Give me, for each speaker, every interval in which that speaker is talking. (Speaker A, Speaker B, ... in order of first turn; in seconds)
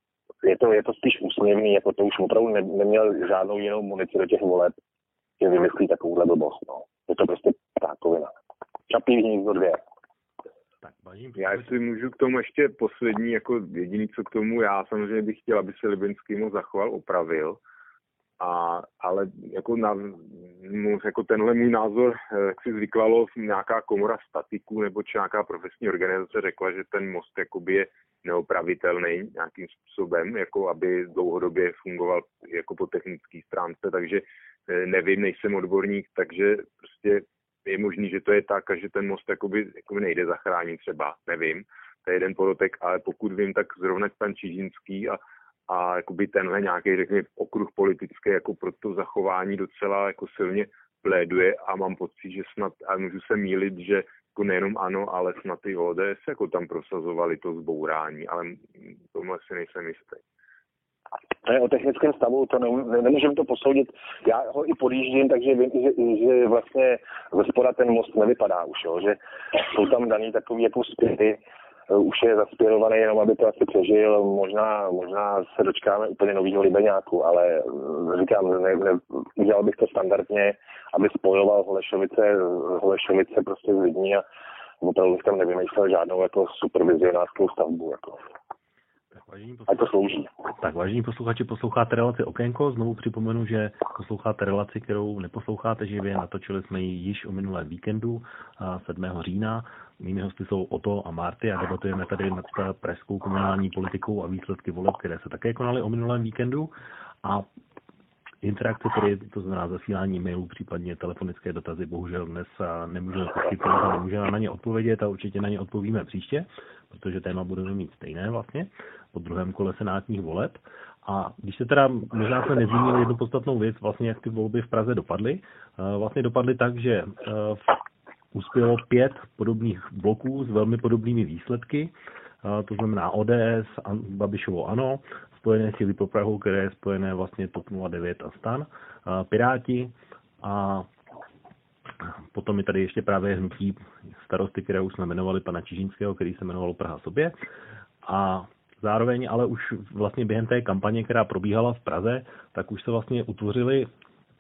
Speaker A: 0.4-4.8, 5.4-8.3, 8.9-9.8, 61.4-84.2, 84.8-88.2, 89.7-90.3
Speaker B: 10.8-11.7, 89.1-89.9, 90.5-106.7, 108.4-127.8, 128.3-131.9, 132.4-140.9, 142.0-147.3, 148.0-153.9
Speaker C: 11.4-17.6, 18.4-60.2